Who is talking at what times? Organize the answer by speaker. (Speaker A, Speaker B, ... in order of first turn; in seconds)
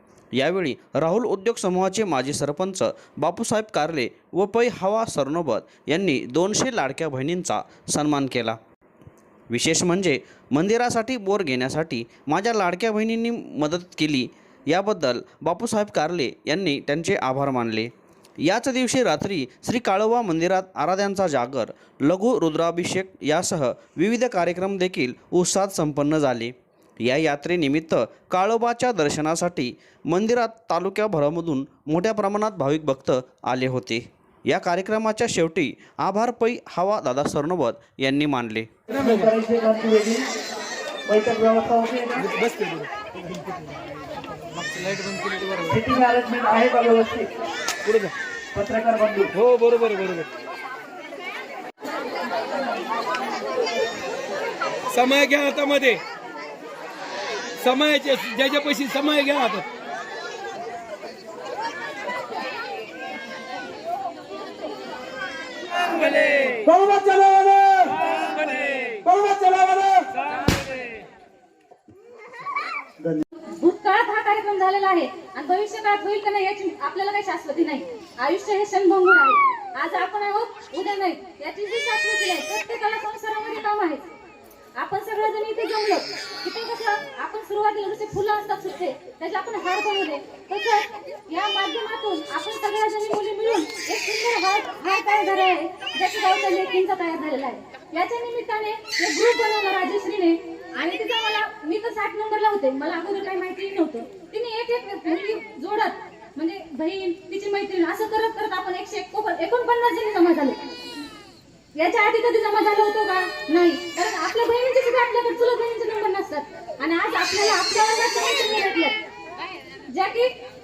Speaker A: 0.3-8.6, 9.5-17.9, 18.4-38.7
Speaker B: 39.0-40.2, 41.1-42.1, 45.7-47.3, 48.5-49.3
Speaker C: 42.3-42.9, 49.4-50.2, 54.9-56.0, 57.6-59.6
Speaker D: 73.5-84.1, 84.8-110.6, 111.8-119.0, 119.9-120.3